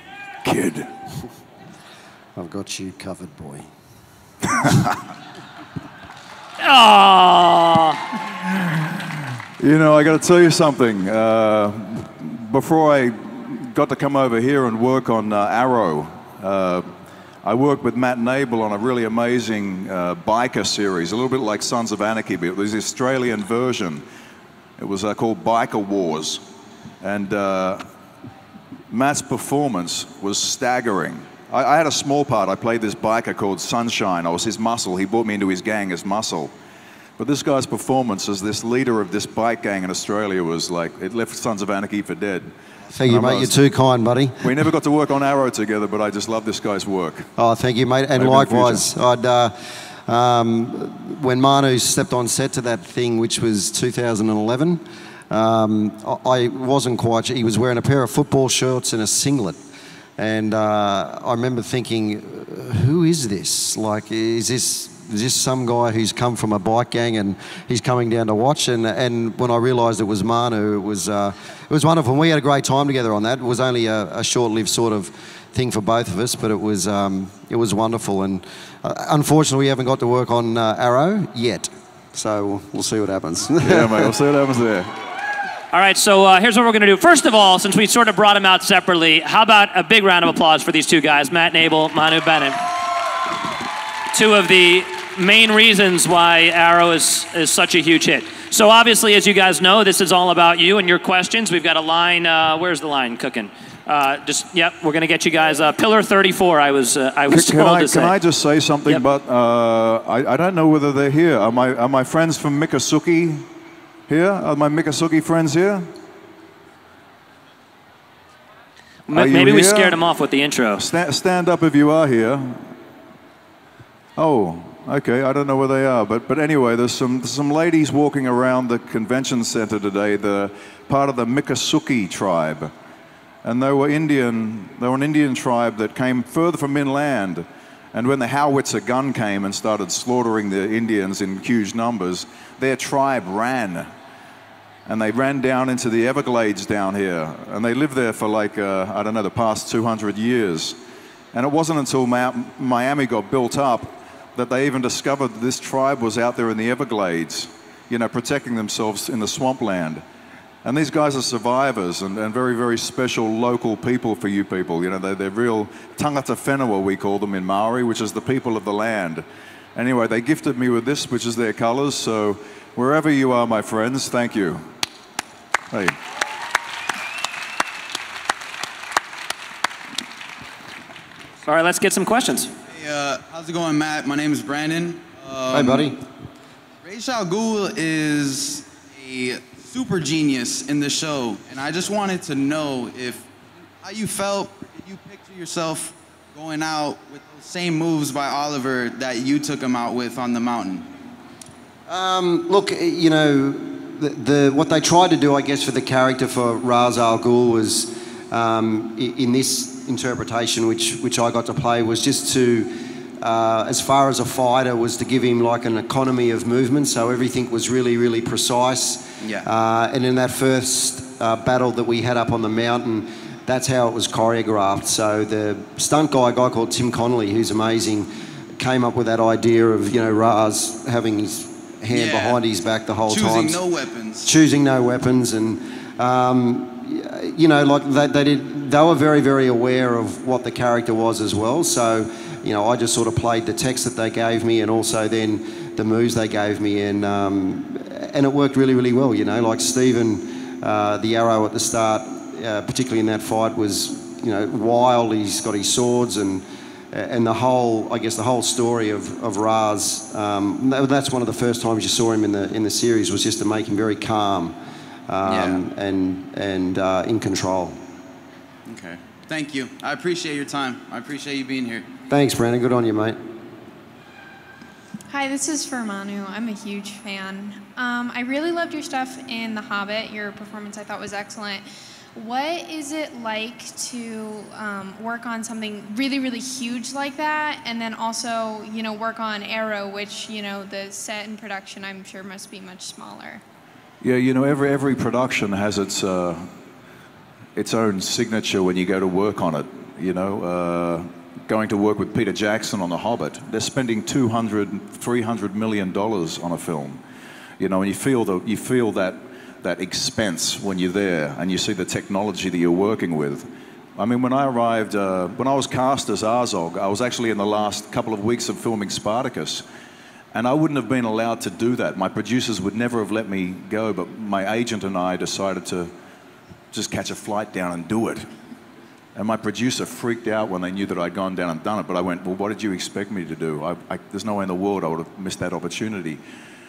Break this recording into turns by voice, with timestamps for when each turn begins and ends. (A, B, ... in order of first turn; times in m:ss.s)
0:00.4-0:00.9 A
0:02.4-0:03.7 B
0:04.5-0:05.0 A
0:06.6-0:08.0 C
0:08.4-0:09.0 A
0:09.6-0:16.9 A
0:17.4-0:24.0 A
0:24.8-0:26.4 A
0:27.0-0:27.8 A
0:28.9-0:36.5 A
0:37.2-0:42.5 A
0:42.9-0:44.5 B
0:43.0-0:43.6 A
0:44.4-0:47.3 A
0:47.4-0:49.5 B
0:48.2-0:48.9 A
0:50.0-0:59.6 B
1:00.2-1:24.1 B
1:23.6-1:24.9 A
1:25.7-1:32.6 C
1:34.1-1:48.2 C
1:47.3-1:53.5 A
1:54.1-1:55.9 A
1:59.1-2:00.9 C
1:59.1-2:00.0 A
2:00.8-2:02.7 A
2:04.2-2:12.7 A
2:13.4-2:23.9 A
2:24.8-2:30.8 A
2:31.3-2:40.0 A
2:40.6-2:54.7 A
2:55.7-2:56.0 A
3:01.4-3:02.5 C
3:02.7-3:05.9 D
3:05.5-3:06.0 B
3:06.8-3:20.9 D
3:21.9-3:53.6 B
3:39.2-3:39.5 D
3:51.9-3:52.4 D
3:53.0-3:54.3 D
3:54.2-4:24.6 B
4:25.1-4:27.8 B
4:25.2-4:25.6 D
4:28.7-4:31.9 D
4:32.1-4:33.2 B
4:35.1-4:53.4 E
4:54.0-4:56.5 A
4:57.6-5:07.0 A
5:07.6-5:19.6 A
5:20.3-5:25.9 A
5:26.7-5:28.3 A
5:29.1-5:36.2 A